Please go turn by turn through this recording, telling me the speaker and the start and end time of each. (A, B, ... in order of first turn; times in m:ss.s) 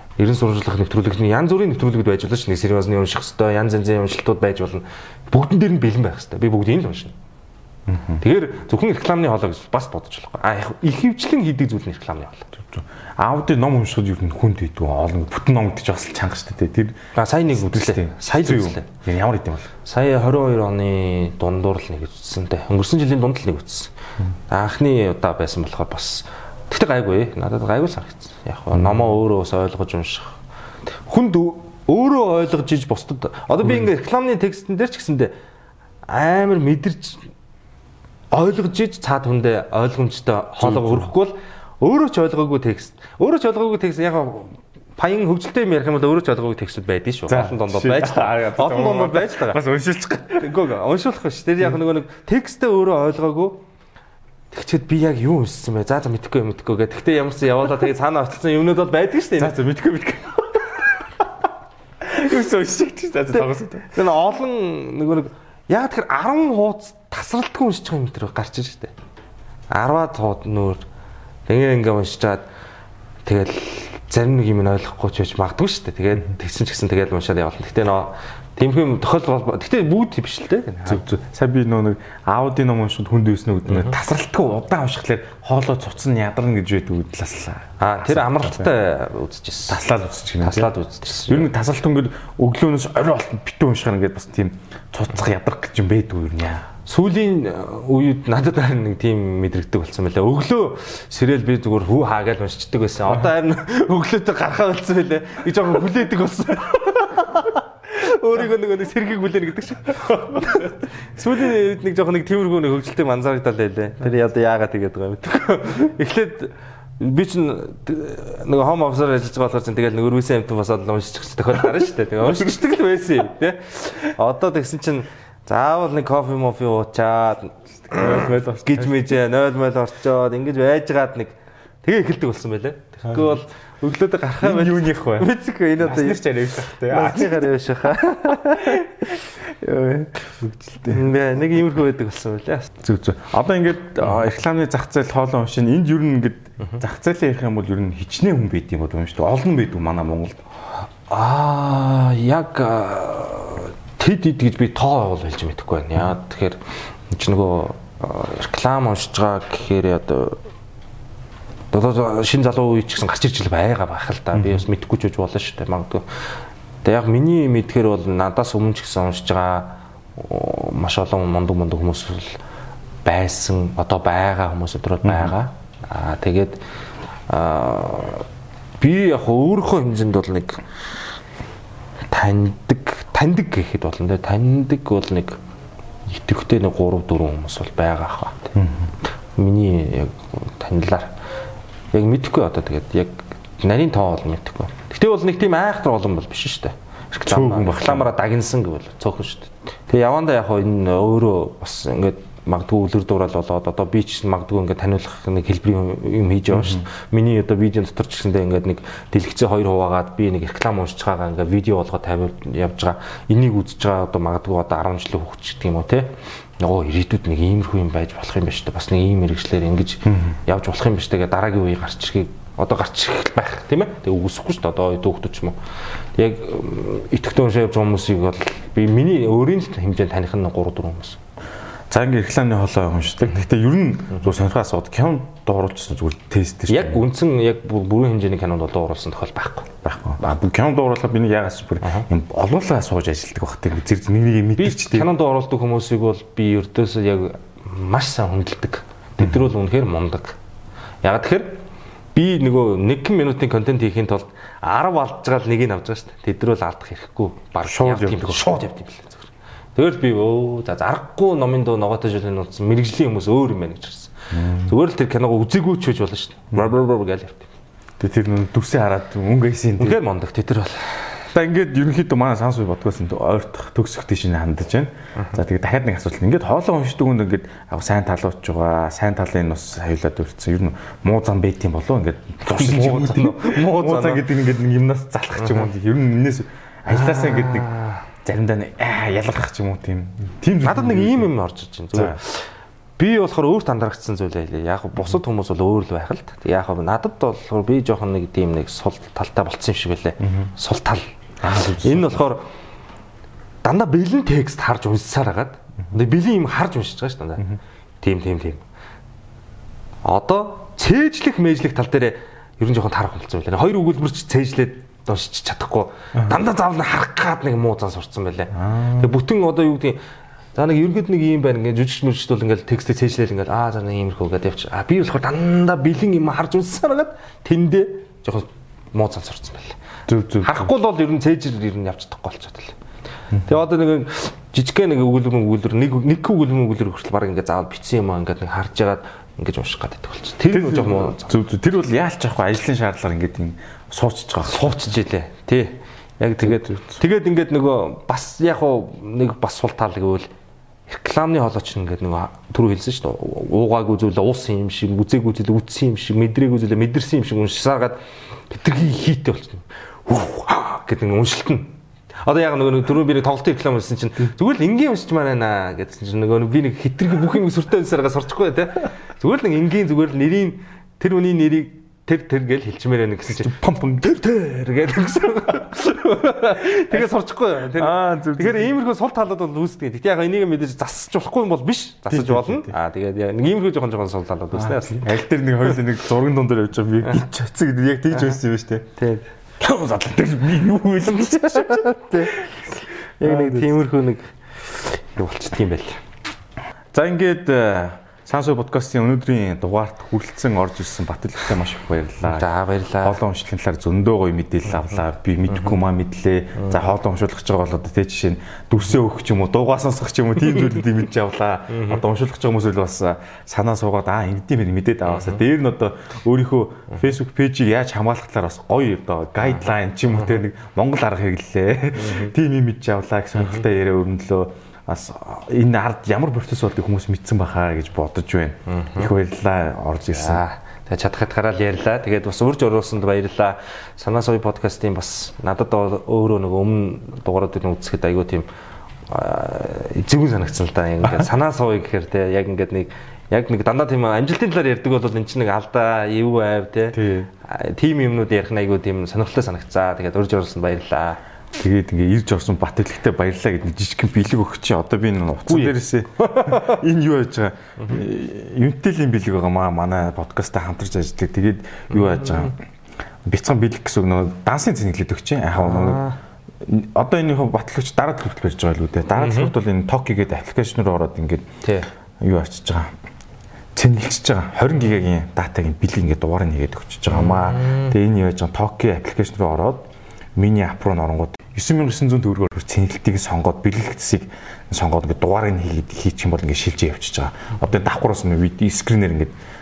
0:00.2-0:07.1 A
0:07.9-0:08.2 B
0:08.2-0:12.5 A
0:12.6-0:17.0 B
0:17.1-0:18.9 A
0:17.5-0:19.7 B
0:19.8-0:23.9 A
0:24.5-0:30.3 A
0:28.7-0:29.1 B
0:31.0-0:35.3 A
0:36.1-0:37.3 A
0:38.3-0:49.6 A
0:40.6-0:41.1 B
0:47.3-0:50.6 B
0:50.4-0:53.6 A
0:54.5-0:59.6 A
0:59.4-1:01.2 B
1:02.0-1:04.0 B
1:03.3-1:08.9 A
1:09.7-1:10.8 A
1:11.5-1:12.4 A
1:13.2-1:21.0 A
1:20.8-1:28.7 B
1:23.7-1:23.9 A
1:27.8-1:29.8 A
1:29.7-1:36.7 B
1:30.4-1:31.5 A
1:36.8-2:19.2 A
2:07.9-2:09.1 B
2:13.1-2:13.3 B
2:14.4-2:17.5 B
2:18.5-2:18.9 B
2:19.5-2:21.1 B
2:20.9-2:22.8 A
2:22.8-2:30.4 B
2:31.1-2:40.4 A
2:41.7-2:46.0 A
2:44.3-2:44.6 B
2:46.8-2:52.4 A
2:53.0-2:56.6 A
2:55.0-2:55.3 B
2:57.3-2:58.2 A
2:58.8-3:00.6 A
3:02.1-3:05.4 A
3:06.1-3:08.5 A
3:08.5-3:08.9 B
3:09.3-3:11.1 A
3:11.9-3:45.6 A
3:17.3-3:18.1 B
3:26.5-3:26.9 B
3:40.0-3:40.4 B
3:46.2-3:51.2 A
3:51.9-3:57.0 B
3:56.7-3:59.7 A
3:59.8-4:05.1 B
4:04.6-4:10.4 A
4:09.2-4:09.4 B
4:11.0-4:11.6 A
4:12.1-4:27.5 A
4:17.6-4:18.6 B
4:24.3-4:24.7 B
4:28.0-4:30.0 B
4:29.8-4:31.2 A
4:31.3-4:47.7 B
4:42.4-4:44.2 A
4:45.4-4:45.6 A
4:46.9-4:48.0 A
4:48.2-4:51.3 B
4:50.6-5:01.1 A
5:00.2-5:00.5 B
5:01.4-5:02.2 B
5:01.8-5:02.4 A
5:03.6-5:08.6 A
5:10.0-5:20.0 A
5:18.5-5:19.1 B
5:20.5-5:29.8 A
5:30.1-5:30.7 B
5:30.4-5:32.8 A
5:33.4-5:41.3 A
5:40.5-5:44.8 B
5:44.4-5:50.3 A
5:46.4-5:47.0 B
5:50.9-6:25.2 A
6:13.3-6:14.1 B
6:16.6-6:17.1 B
6:17.7-6:18.7 B
6:22.1-6:22.8 B
6:24.5-6:28.9 B
6:29.0-6:29.3 A
6:29.6-6:32.4 B
6:31.1-6:32.5 A
6:33.2-6:36.0 A
6:33.2-6:33.8 B
6:36.9-6:42.5 B
6:42.2-6:43.2 A
6:43.0-7:10.4 B
6:45.5-6:45.8 A
6:51.7-6:52.0 A
6:55.0-6:55.4 A
7:01.9-7:02.3 A
7:03.4-7:03.6 A
7:08.7-7:09.1 A
7:10.1-7:18.5 A
7:19.1-7:31.2 A
7:26.9-7:27.3 B
7:31.5-7:42.6 B
7:35.4-7:36.8 A
7:41.9-7:42.5 A
7:43.2-7:46.0 B
7:45.6-7:46.2 A
7:46.6-7:51.4 B
7:49.2-7:49.5 A
7:52.2-7:52.9 B
7:53.7-8:09.3 B
7:57.1-7:57.9 A